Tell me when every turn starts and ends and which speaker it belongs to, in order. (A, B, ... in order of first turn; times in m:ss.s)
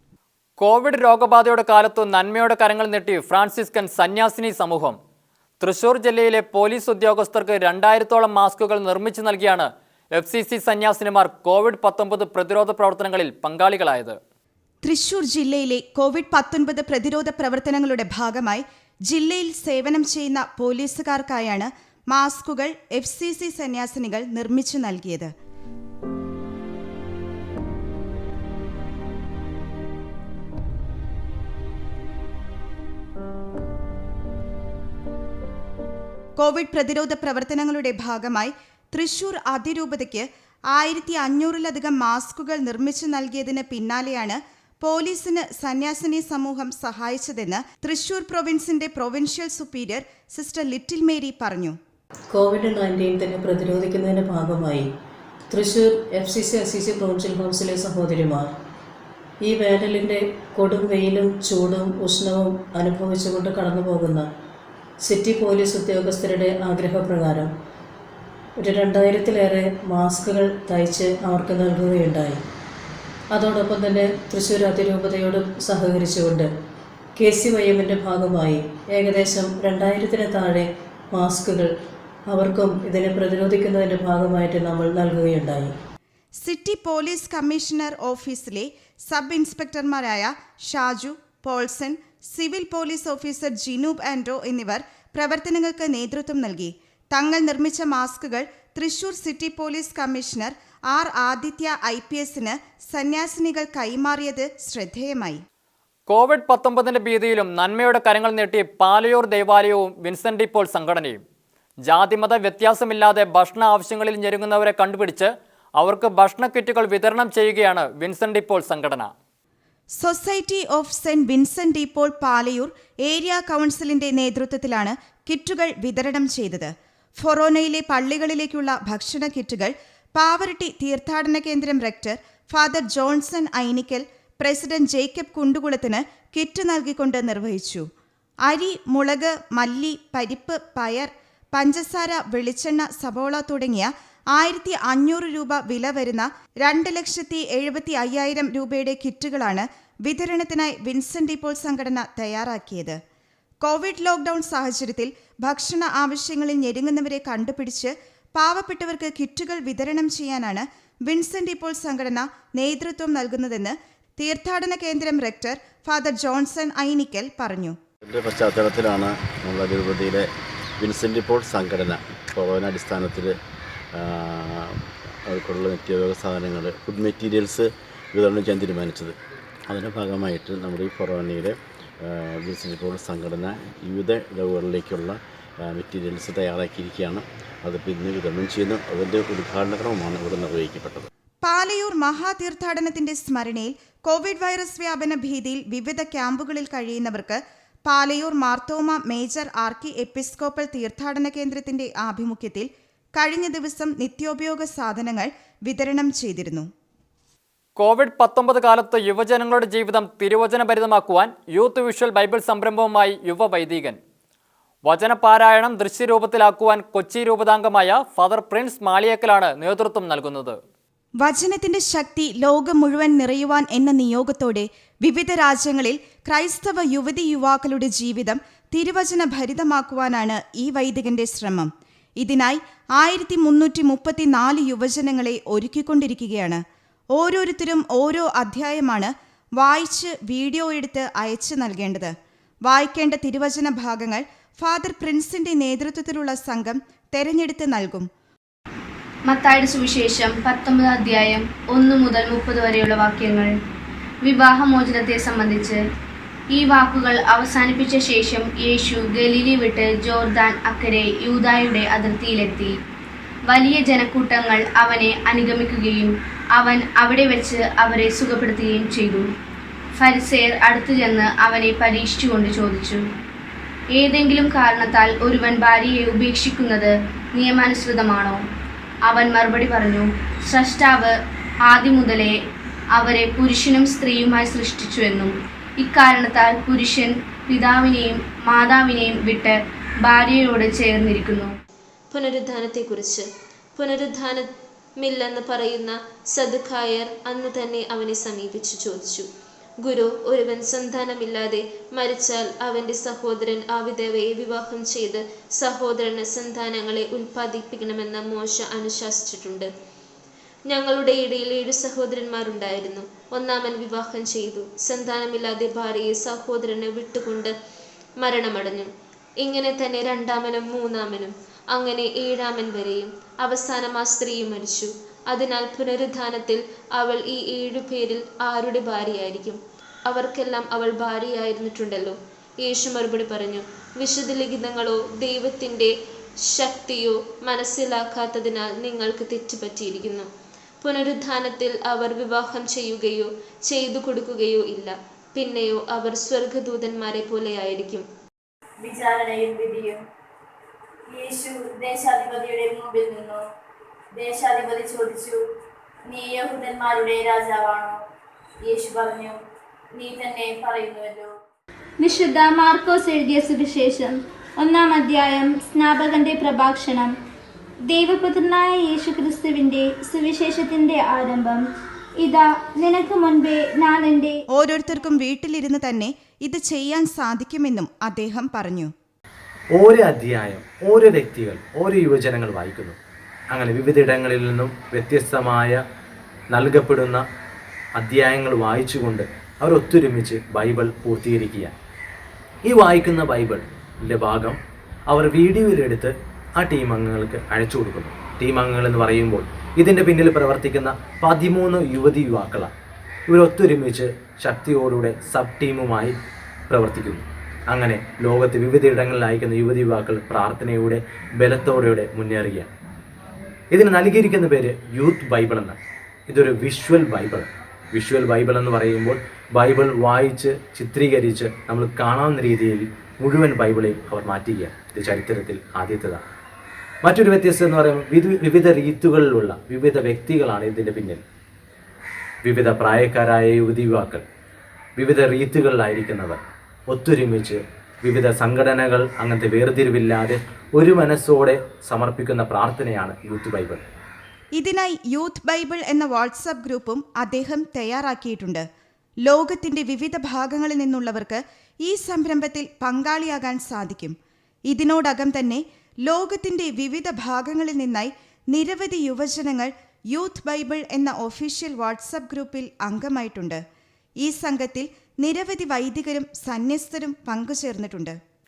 0:00.6-0:05.0 A
0:05.6-0:14.2 A
0:14.8-0:25.3 B
0:36.4-0:51.8 B
0:52.3-0:54.9 C
0:55.5-0:58.5 C
0:59.4-1:04.3 C
1:05.0-1:07.5 C
1:08.6-1:12.4 C
1:13.3-1:16.5 C
1:17.2-1:21.7 C
1:22.3-1:25.7 C
1:26.4-1:45.4 B
1:46.1-1:51.2 A
1:51.9-1:59.1 A
2:00.0-2:17.9 B
2:18.5-2:33.0 B
2:33.6-2:47.8 B
2:48.0-2:50.3 D
2:50.8-2:53.4 D
2:53.9-2:59.2 D
2:59.7-3:11.1 D
3:11.4-3:26.7 B
3:27.8-3:34.0 A
3:34.9-3:40.6 A
3:41.2-3:56.6 B
3:57.1-4:02.1 B
4:02.7-4:08.1 B
4:09.3-4:13.5 E
4:14.2-4:15.8 E
4:16.5-4:22.7 E
4:23.5-4:29.2 E
4:30.0-4:33.0 E
4:34.0-4:38.4 E
4:39.1-4:41.1 E
4:41.7-4:42.3 E
4:43.0-4:51.5 E
4:52.1-4:59.3 F
4:59.8-5:09.7 F
5:10.7-5:17.5 F
5:18.2-5:18.9 F
5:19.4-5:35.9 F
5:36.5-5:40.3 F
5:40.8-5:48.0 F
5:48.8-5:50.0 G
5:51.1-5:53.4 G
5:54.2-5:55.4 G
5:56.1-5:58.0 G
5:58.7-5:59.4 G
6:00.0-6:01.3 G
6:02.0-6:07.1 H
6:07.9-6:11.6 H
6:12.2-6:14.4 H
6:14.5-6:18.9 B
6:19.7-6:23.0 I
6:23.5-6:25.8 I
6:26.5-6:27.2 I
6:28.0-6:31.7 I
6:32.6-6:34.6 I
6:35.1-6:42.7 I
6:43.3-6:46.1 I
6:46.7-6:52.7 I
6:53.7-6:55.8 I
6:56.3-7:06.2 I
7:07.0-7:11.2 I
7:12.4-7:14.2 I
7:15.0-7:23.8 I
7:24.6-7:28.6 B
7:29.2-7:34.2 B
7:34.7-7:43.6 B
7:44.2-7:48.2 B